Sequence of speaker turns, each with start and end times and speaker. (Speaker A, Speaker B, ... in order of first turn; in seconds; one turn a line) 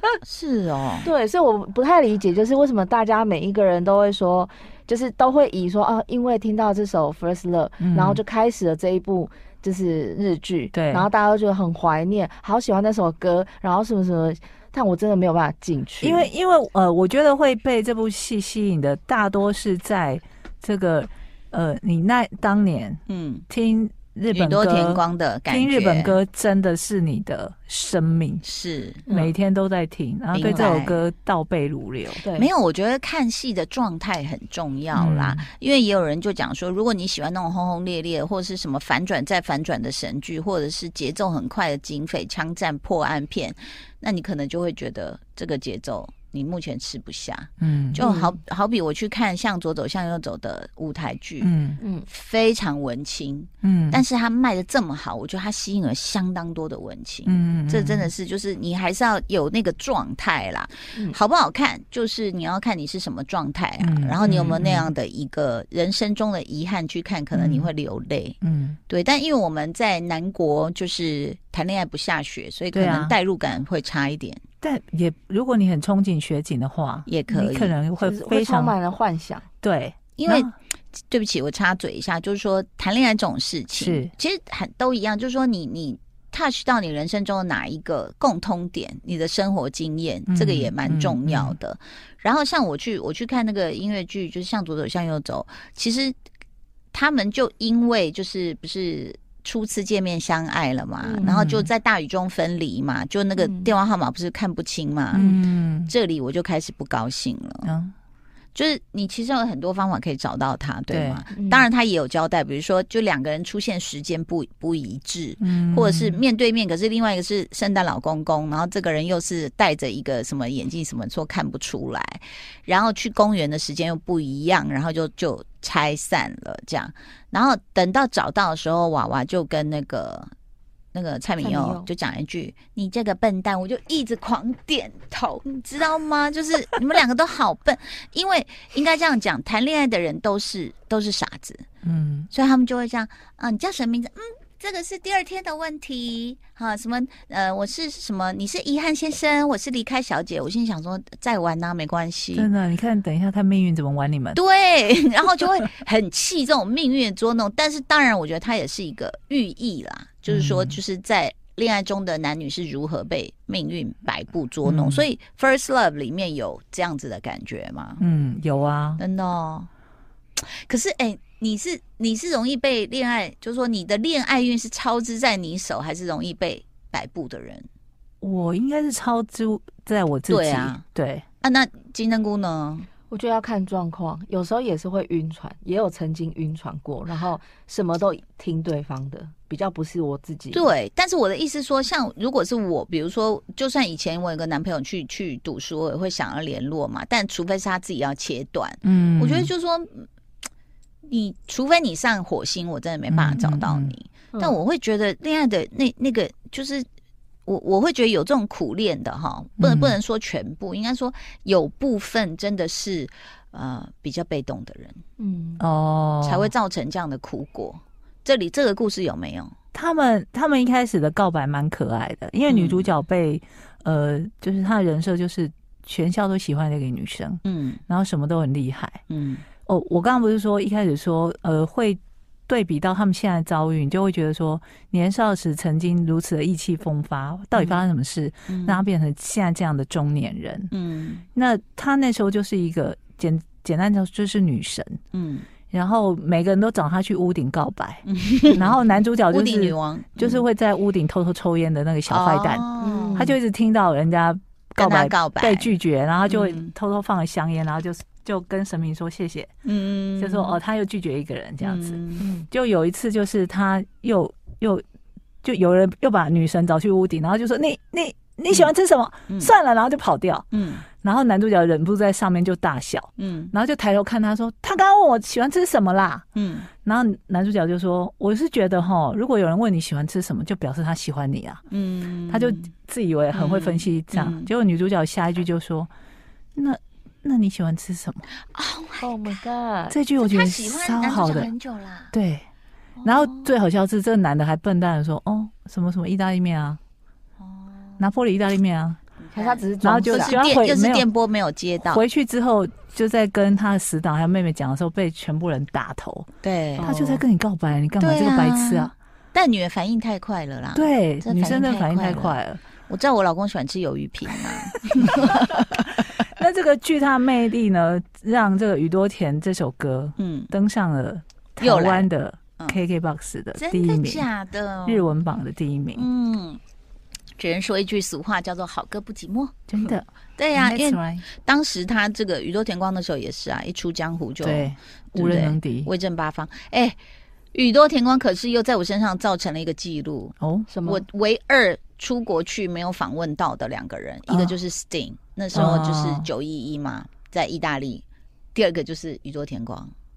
Speaker A: 0.2-1.1
Speaker B: 1.0-16.3
Speaker C: 7.8-8.2
Speaker C: 10.7-11.1
Speaker C: 16.0-28.4
Speaker A: 23.1-23.4
Speaker A: 24.3-26.2
Speaker A: 28.4-29.0
Speaker B: 29.1-29.3
Speaker C: 29.1-32.2
Speaker A: 30.3-31.0
Speaker B: 32.2-32.5
Speaker A: 32.3-51.5
Speaker C: 34.9-35.4
Speaker C: 47.6-48.0
Speaker B: 48.0-48.4
Speaker C: 51.4-51.8
Speaker B: 51.8-52.1
Speaker A: 52.1-68.4
Speaker C: 53.6-54.0
Speaker C: 57.2-58.1
Speaker C: 63.8-64.9
Speaker B: 64.2-64.5
Speaker C: 67.3-67.7
Speaker C: 68.4-68.8
Speaker A: 68.9-74.4
Speaker C: 72.7-73.1
Speaker C: 74.6-78.8
Speaker A: 77.0-77.7
Speaker B: 78.0-79.5
Speaker C: 79.6-80.5
Speaker A: 80.2-96.2
Speaker C: 83.8-84.1
Speaker C: 90.3-91.5
Speaker A: 96.9-105.2
Speaker B: 101.0-101.3
Speaker C: 101.2-101.7
Speaker B: 103.4-103.7
Speaker B: 105.1-105.4
Speaker C: 105.1-105.9
Speaker A: 105.8-107.7
Speaker C: 107.6-107.9
Speaker A: 108.5-130.3
Speaker C: 110.9-111.2
Speaker B: 111.3-111.7
Speaker C: 115.4-116.2
Speaker A: 130.9-141.7
Speaker B: 131.4-131.9
Speaker C: 141.8-142.3
Speaker A: 142.3-152.5
Speaker C: 152.3-154.4
Speaker A: 154.3-168.0
Speaker C: 160.3-160.8
Speaker C: 164.6-165.1
Speaker C: 168.0-169.0
Speaker A: 169.0-169.7
Speaker A: 170.4-177.7
Speaker C: 178.2-181.2
Speaker A: 180.3-180.8
Speaker A: 181.4-182.9
Speaker B: 183.1-190.7
Speaker A: 190.5-200.1
Speaker C: 198.8-199.5
Speaker A: 201.1-206.8
Speaker C: 203.1-203.9
Speaker A: 207.4-215.0
Speaker C: 209.6-210.0
Speaker B: 215.2-215.6
Speaker C: 215.6-216.5
Speaker A: 216.2-219.5
Speaker C: 219.7-229.0
Speaker A: 222.5-222.9
Speaker A: 227.4-227.8
Speaker A: 229.1-229.4
Speaker C: 229.7-240.7
Speaker A: 237.5-237.8
Speaker A: 238.5-238.8
Speaker A: 240.7-241.2
Speaker C: 241.3-245.0
Speaker A: 245.1-245.5
Speaker C: 245.7-259.5
Speaker A: 248.1-248.8
Speaker A: 249.3-250.4
Speaker A: 252.1-253.3
Speaker B: 252.8-253.4
Speaker A: 254.8-255.7
Speaker A: 256.2-256.7
Speaker A: 259.6-260.6
Speaker C: 260.2-262.0
Speaker A: 261.6-262.3
Speaker B: 262.2-262.5
Speaker C: 262.5-264.8
Speaker C: 265.4-270.5
Speaker A: 270.5-270.9
Speaker C: 271.0-276.2
Speaker A: 273.2-273.5
Speaker A: 276.4-276.7
Speaker C: 276.8-281.6
Speaker A: 281.7-282.7
Speaker C: 282.3-285.9
Speaker A: 283.3-284.5
Speaker C: 286.5-288.2
Speaker A: 288.5-289.4
Speaker B: 289.0-290.0
Speaker C: 289.9-291.5
Speaker A: 290.2-292.1
Speaker C: 292.1-292.4
Speaker A: 292.9-293.5
Speaker C: 293.0-296.8
Speaker A: 297.4-298.0
Speaker C: 298.0-299.0
Speaker A: 299.2-302.0
Speaker B: 299.3-300.4
Speaker C: 299.8-301.1
Speaker C: 301.9-306.3
Speaker A: 306.4-306.9
Speaker B: 306.8-307.2
Speaker C: 306.8-308.9
Speaker A: 308.0-316.1
Speaker C: 310.7-312.6
Speaker C: 315.0-315.4
Speaker C: 316.2-324.2
Speaker A: 320.2-320.5
Speaker A: 321.6-322.1
Speaker A: 323.6-325.1
Speaker C: 324.9-326.1
Speaker A: 325.9-326.6
Speaker A: 327.4-337.0
Speaker C: 329.7-331.2
Speaker C: 334.4-335.9
Speaker A: 337.5-349.9
Speaker C: 340.4-340.7
Speaker B: 340.7-341.0
Speaker C: 344.3-344.5
Speaker C: 345.5-346.3